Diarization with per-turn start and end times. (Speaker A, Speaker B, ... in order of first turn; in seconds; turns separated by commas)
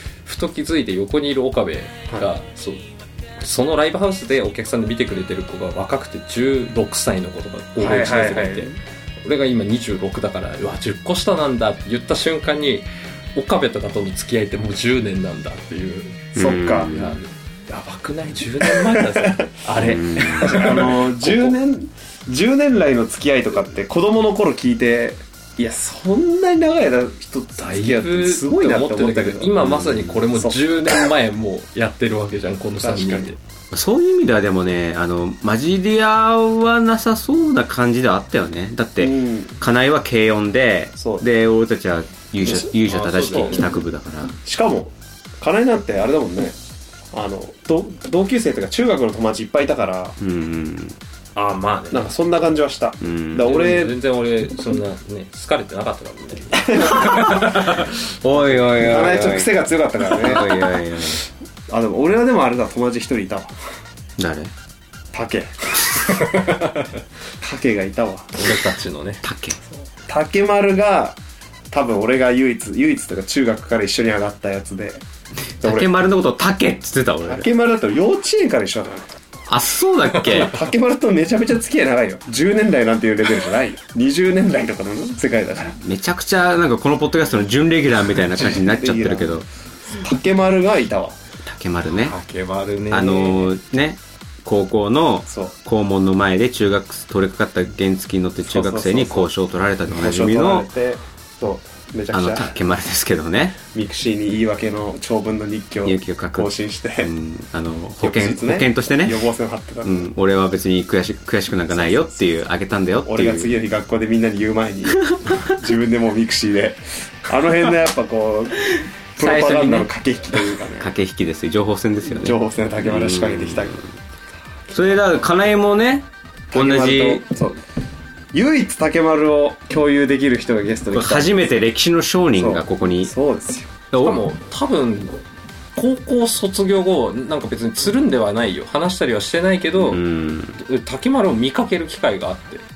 Speaker A: 0.2-2.8, Speaker A: 3.4-21.5, Speaker B: 7.8-8.7, Speaker B: 16.4-16.9, Speaker C: 16.4-17.1, Speaker B: 18.7-29.7, Speaker C: 19.8-20.8, Speaker A: 27.6-33.4, Speaker C: 29.7-30.1, Speaker B: 32.8-33.3, Speaker C: 33.7-44.4, Speaker B: 39.0-39.5, Speaker B: 41.0-41.2, Speaker B: 42.5-42.7, Speaker A: 42.7-43.7, Speaker B: 43.3-43.7, Speaker B: 44.4-46.6, Speaker B: 47.1-50.2, Speaker C: 50.2-51.0, Speaker A: 51.4-52.1, Speaker B: 51.9-54.0, Speaker C: 53.0-53.6, Speaker A: 53.4-57.9, Speaker B: 56.6-57.2, Speaker C: 56.8-59.5, Speaker B: 58.6-60.7, Speaker C: 60.0-61.2, Speaker B: 61.7-63.5, Speaker C: 64.2-64.5, Speaker B: 65.1-65.7, Speaker A: 66.2-66.9, Speaker B: 67.4-68.4, Speaker A: 68.3-69.2, Speaker C: 69.2-69.6, Speaker B: 70.1-71.2, Speaker B: 71.7-75.0, Speaker C: 75.6-77.5, Speaker B: 75.6-75.9, Speaker B: 77.3-79.1, Speaker C: 79.5-80.6, Speaker B: 80.2-85.8, Speaker C: 85.8-89.5, Speaker B: 88.4-91.2, Speaker C: 91.4-92.1, Speaker A: 91.9-93.5, Speaker C: 92.9-100.7, Speaker B: 95.3-95.5, Speaker B: 98.5-99.3, Speaker B: 99.9-102.5, Speaker C: 102.1-103.6, Speaker B: 103.7-107.1, Speaker C: 105.8-109.2, Speaker B: 108.0-110.1, Speaker C: 109.8-113.5, Speaker B: 111.7-112.4, Speaker B: 113.0-120.9, Speaker C: 115.0-115.4, Speaker C: 118.7-123.9, Speaker B: 122.1-123.8, Speaker A: 124.7-125.2, Speaker C: 124.7-127.2, Speaker B: 126.5-127.6, Speaker B: 128.3-131.4, Speaker C: 130.9-133.1, Speaker B: 132.3-133.7, Speaker C: 133.9-134.2, Speaker A: 134.0-135.2, Speaker A: 135.8-140.0, Speaker C: 139.8-140.6, Speaker A: 140.6-142.6